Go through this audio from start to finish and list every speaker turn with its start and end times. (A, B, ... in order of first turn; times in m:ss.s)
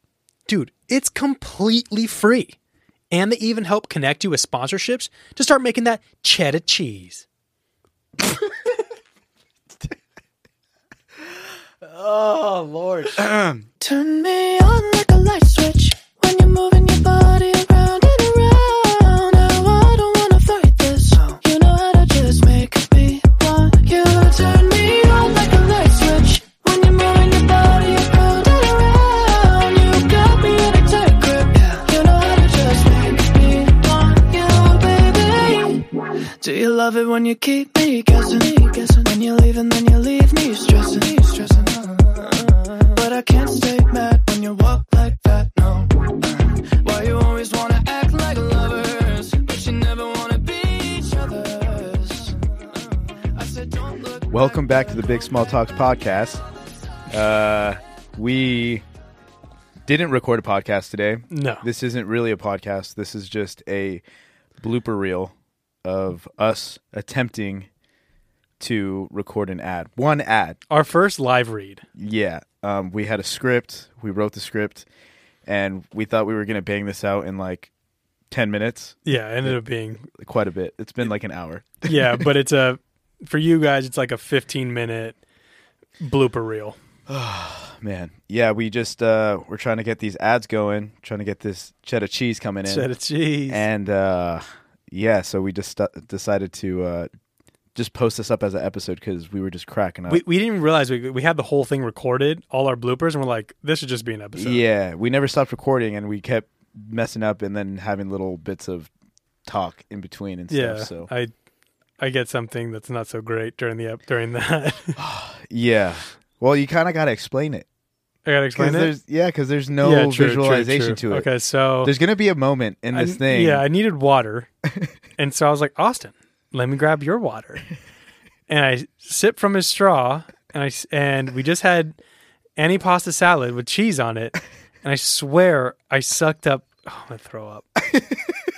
0:00.5-0:02.6 A
0:03.1-0:07.2 A
0:11.8-0:13.2 A
0:13.1-0:13.6 B
0:13.8-0:54.4 C
0:54.3-0:56.4 B
0:57.1-0:58.8 B
0:59.8-1:04.0 B
1:01.3-1:01.6 A
1:04.6-1:07.7 B
1:08.6-1:10.6 B
1:10.7-1:11.8 A
1:11.9-1:14.8 B
1:15.4-1:17.7 B
1:18.3-1:22.2 B
1:19.0-1:20.0 A
1:21.8-1:25.2 A
1:26.0-1:26.8 A
1:27.1-1:32.9 B
1:32.7-1:33.6 A
1:33.5-1:37.1 B
1:37.7-1:40.2 B
1:40.1-1:44.6 A
1:44.4-1:48.9 B
1:49.4-1:51.1 B
1:50.5-1:51.3 A
1:52.0-1:55.0 A
1:55.0-1:57.6 B
1:58.2-1:58.9 A
1:58.5-2:01.3 B
1:59.8-2:01.9 A
2:01.8-2:03.6 B
2:02.9-2:04.5 A
2:05.2-2:07.6 A
2:08.5-2:12.0 A
2:12.6-2:17.6 A
2:17.9-2:18.2 B